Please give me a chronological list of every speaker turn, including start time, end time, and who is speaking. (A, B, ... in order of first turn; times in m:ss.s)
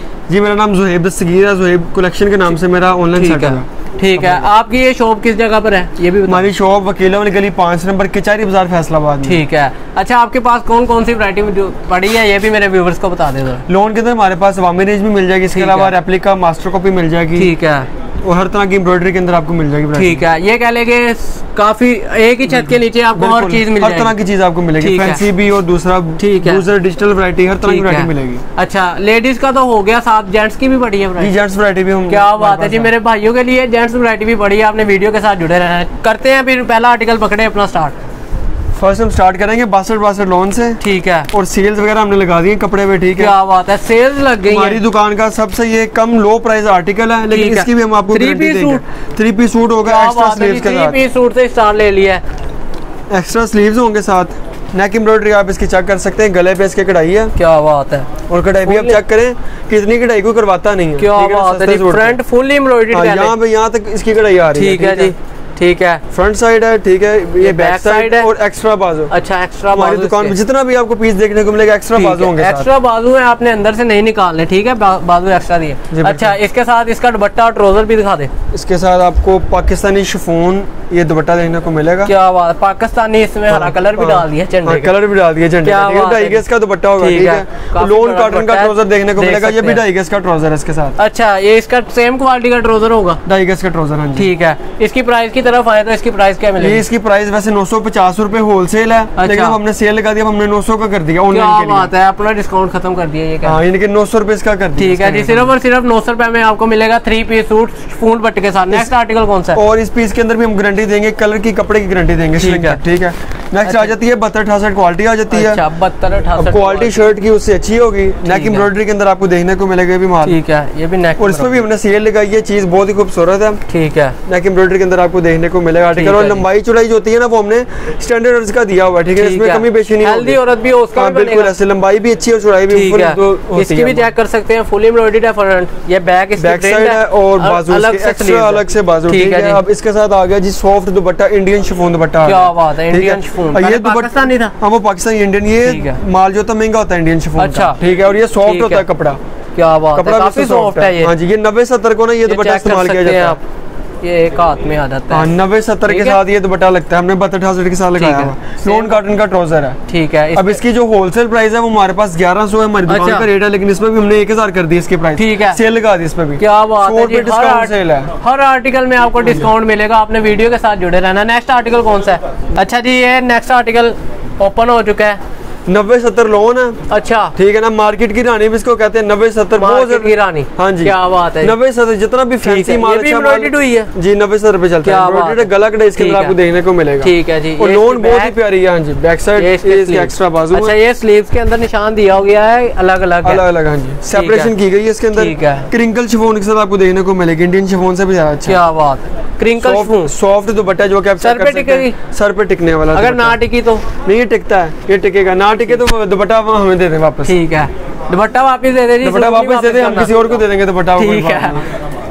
0:00.3-0:04.5 A
0:03.2-0:06.5 B
0:06.2-0:09.4 A
0:09.2-0:13.6 B
0:13.7-0:17.5 A
0:15.5-0:15.9 B
0:17.4-0:17.9 B
0:18.2-0:20.2 A
0:19.9-0:24.1 B
0:22.5-0:28.4 A
0:24.8-0:25.2 B
0:26.2-0:26.6 B
0:27.6-0:31.3 B
0:31.2-0:32.9 A
0:32.1-0:37.9 B
0:38.8-0:43.3 A
0:40.8-0:41.3 B
0:43.2-0:44.8 B
0:44.4-0:51.0 A
0:47.3-0:48.8 B
0:49.8-0:52.2 B
0:53.1-0:57.3 A
0:57.4-0:58.1 B
0:58.3-1:02.2 A
0:58.6-0:59.0 B
1:01.0-1:03.3 B
1:02.9-1:05.1 A
1:04.5-1:06.0 B
1:06.1-1:09.1 A
1:07.4-1:08.3 B
1:09.1-1:10.4 B
1:09.7-1:12.7 A
1:12.0-1:18.3 B
1:15.9-1:16.4 A
1:18.5-1:22.1 A
1:22.0-1:24.9 B
1:23.5-1:31.0 A
1:25.6-1:26.4 B
1:27.0-1:29.8 B
1:31.0-1:33.2 B
1:33.2-1:34.3 A
1:34.2-1:36.8 B
1:36.6-1:41.9 A
1:39.2-1:39.6 B
1:41.3-1:43.6 B
1:43.4-1:45.5 A
1:44.8-1:49.6 B
1:49.5-1:55.6 A
1:52.4-1:52.8 B
1:53.6-1:53.9 B
1:55.3-1:57.1 B
1:56.4-2:00.4 A
1:58.2-1:58.7 B
2:00.2-2:01.6 B
2:01.2-2:03.6 A
2:03.7-2:04.2 B
2:04.2-2:10.4 A
2:05.9-2:06.4 B
2:09.2-2:11.5 B
2:10.9-2:14.1 A
2:12.7-2:19.6 B
2:16.4-2:29.2 A
2:22.2-2:24.5 B
2:25.6-2:26.0 B
2:27.4-2:27.8 B
2:28.4-2:28.8 B
2:29.5-2:31.1 B
2:29.9-2:33.4 A
2:32.2-2:33.4 B
2:34.0-2:35.3 B
2:35.1-2:39.8 A
2:35.9-2:36.2 B
2:38.0-2:39.0 B
2:39.9-2:40.6 B
2:40.3-2:48.1 A
2:42.9-2:43.3 B
2:45.2-2:45.6 B
2:46.4-2:55.2 B
2:55.7-2:56.8 A
2:56.9-2:57.3 B
2:57.4-3:10.7 A
2:59.6-3:01.5 B
3:02.4-3:03.9 B
3:04.8-3:06.4 B
3:07.0-3:08.4 B
3:09.4-3:13.4 B
3:13.2-3:18.6 A
3:14.1-3:14.5 B
3:15.1-3:15.7 B
3:18.4-3:20.1 B
3:19.6-3:23.4 A
3:21.2-3:21.9 B
3:22.9-3:23.8 B
3:24.0-3:27.4 A
3:27.2-3:30.2 B
3:29.0-3:31.6 A
3:31.0-3:31.6 B